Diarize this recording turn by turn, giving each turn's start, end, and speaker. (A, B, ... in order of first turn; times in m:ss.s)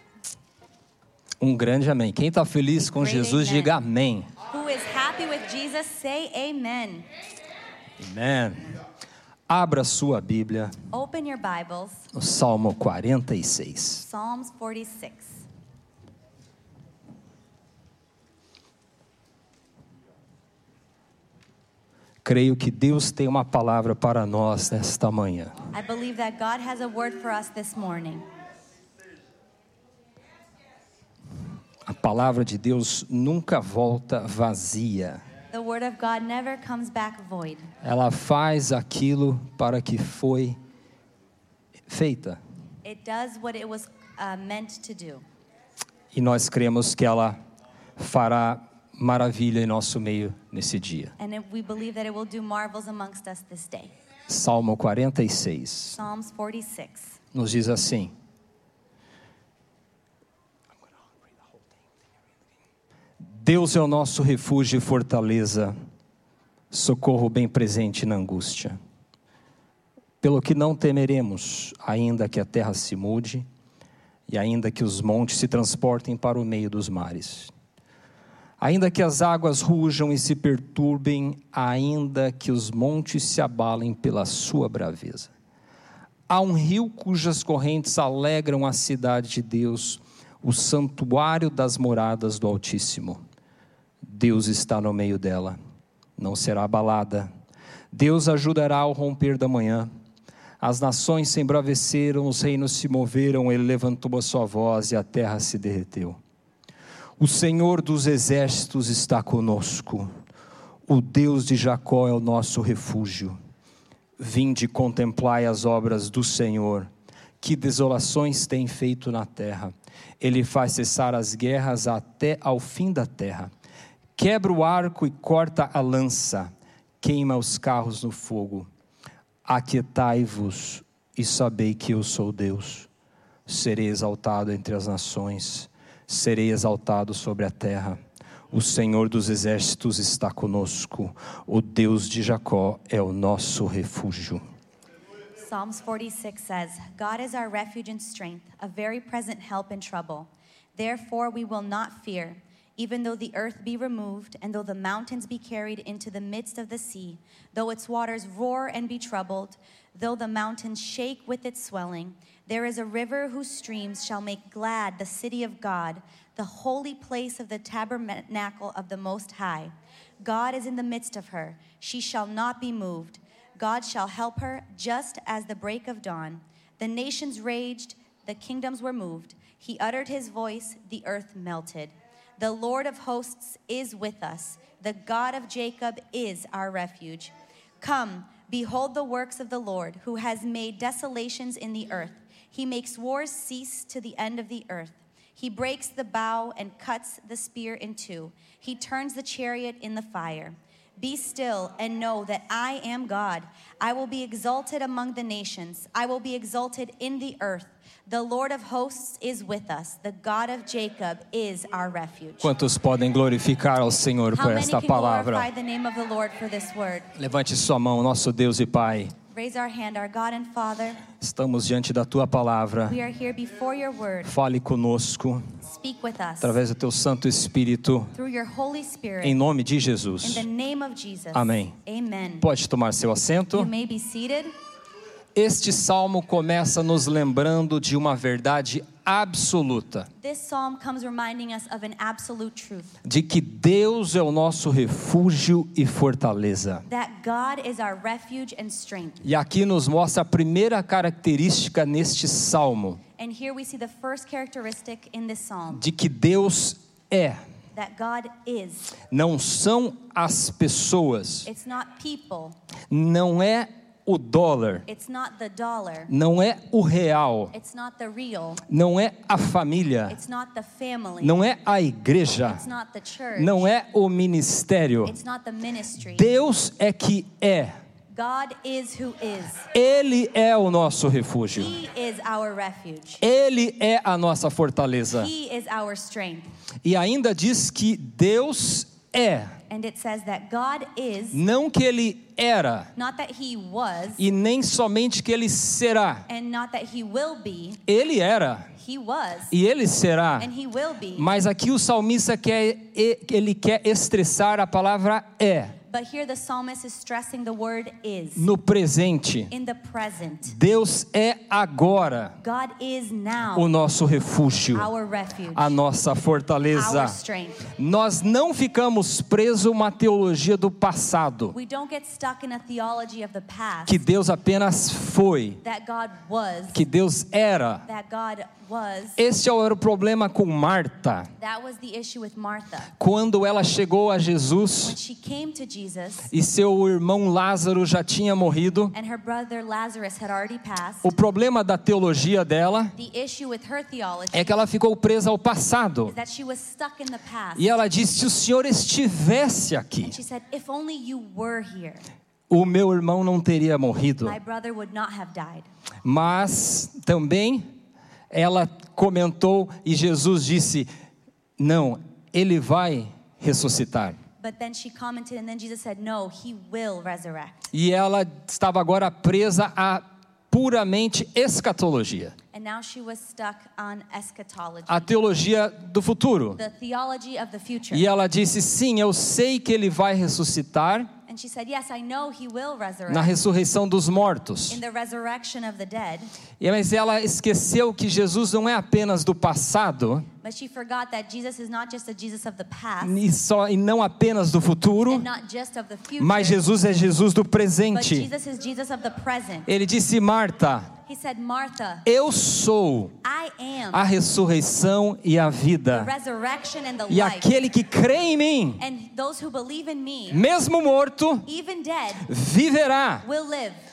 0:01.4-0:04.3 A
0:02.8-0:03.8 B
0:04.5-0:07.1 B
0:08.0-0:08.6 A
0:09.5-0:10.7 A
0:10.9-0:12.1 B
0:12.1-0:14.0 A
0:14.0-0:15.4 B
0:22.2-0:25.5 A
0:25.7-0:28.2 B
0:31.9-0:35.2 A
0:35.5-0:37.7 B
0:37.8-0:40.6 A
0:41.9-0:42.4 A
0:42.8-0:45.2 B
0:46.1-0:47.4 A
0:48.0-0:51.1 A
0:51.2-0:53.9 B
0:54.3-0:56.0 A
0:56.0-0:57.2 B
0:57.3-0:58.1 A
1:03.3-1:05.7 A
1:06.7-1:08.8 A
1:10.2-1:13.5 A
1:14.3-1:17.5 A
1:18.6-1:25.3 A
1:26.3-1:33.2 A
1:34.0-1:35.6 A
1:36.2-1:37.3 A
1:37.9-1:39.9 A
1:40.6-1:46.2 A
1:47.2-1:50.1 A
1:50.9-1:53.4 A
1:54.2-1:56.9 A
1:57.4-2:03.5 A
2:04.2-2:06.5 A
2:07.0-2:08.7 A
2:09.5-2:12.9 A
2:13.5-2:18.0 A
2:18.5-2:24.4 A
2:25.4-3:32.5 B
3:32.4-3:35.5 A
3:34.3-3:37.1 B
3:37.2-3:39.1 A
3:39.3-3:41.0 B
3:41.2-3:43.0 A
3:42.9-3:44.3 B
3:44.2-3:45.4 A
3:45.7-3:46.6 B
3:46.4-3:48.1 A
3:48.2-3:49.4 B
3:49.2-3:50.4 A
3:50.2-3:52.4 B
3:51.3-3:51.7 A
3:52.4-3:53.7 A
3:53.5-3:54.5 B
3:55.4-4:00.1 A
4:00.2-4:02.9 B
4:03.0-4:06.9 A
4:06.9-4:09.2 B
4:09.2-4:13.0 A
4:13.2-4:15.8 B
4:15.7-4:17.4 A
4:17.7-4:19.0 B
4:19.1-4:21.5 A
4:21.4-4:22.6 B
4:22.9-4:24.9 A
4:24.9-4:26.1 B
4:26.1-4:27.5 A
4:27.5-4:28.6 B
4:28.7-4:30.2 A
4:30.1-4:31.4 B
4:31.2-4:32.6 A
4:32.4-4:33.7 B
4:33.4-4:35.2 A
4:35.0-4:36.3 B
4:36.0-4:37.7 A
4:38.1-4:39.7 B
4:39.7-4:41.7 A
4:41.6-4:43.2 B
4:43.2-4:45.3 A
4:45.1-4:46.5 B
4:46.8-4:49.6 A
4:49.7-4:51.4 B
4:51.3-4:52.9 A
4:53.0-4:54.2 B
4:54.2-4:56.2 A
4:56.3-4:57.8 B
4:57.9-4:58.7 A
4:58.8-4:59.5 B
4:59.5-5:00.5 A
5:00.4-5:01.3 B
5:01.2-5:05.8 A
5:05.9-5:08.5 B
5:08.4-5:09.5 A
5:09.5-5:10.6 B
5:10.5-5:12.4 A
5:12.4-5:13.7 B
5:13.5-5:14.9 A
5:14.7-5:15.8 B
5:15.5-5:17.2 A
5:16.7-5:17.7 B
5:17.7-5:21.6 A
5:21.5-5:24.0 B
5:23.9-5:25.6 A
5:25.6-5:26.8 B
5:26.7-5:27.8 A
5:27.9-5:29.2 B
5:29.2-5:31.3 A
5:31.4-5:32.9 B
5:33.0-5:35.0 A
5:34.8-5:36.3 B
5:36.3-5:38.9 A
5:38.9-5:41.1 B
5:41.0-5:43.0 A
5:43.0-5:44.6 B
5:44.3-5:46.2 A
5:46.1-5:47.7 B
5:47.6-5:50.2 A
5:50.0-5:52.0 B
5:52.5-5:54.4 A
5:54.2-5:55.7 B
5:56.0-5:57.7 A
5:58.3-6:00.9 A
6:01.6-6:04.2 A
6:04.4-6:07.7 B
6:07.7-6:12.4 A
6:12.5-6:15.1 B
6:14.9-6:16.6 A
6:16.6-6:18.1 B
6:17.9-6:21.1 A
6:21.3-6:23.3 B
6:23.1-6:24.8 A
6:24.7-6:26.3 B
6:26.6-6:30.3 A
6:30.4-6:33.2 B
6:33.0-6:35.2 A
6:35.0-6:36.6 B
6:36.2-6:38.3 A
6:37.9-6:39.7 B
6:39.7-6:40.9 A
6:41.0-6:42.1 B
6:42.0-6:43.1 A
6:43.2-6:44.0 B
6:43.9-6:46.1 A
6:45.9-6:47.6 B
6:47.1-6:48.8 A
6:48.8-6:50.4 B
6:50.3-6:51.5 A
6:51.5-6:52.3 B
6:52.2-6:53.2 A
6:53.2-6:53.8 B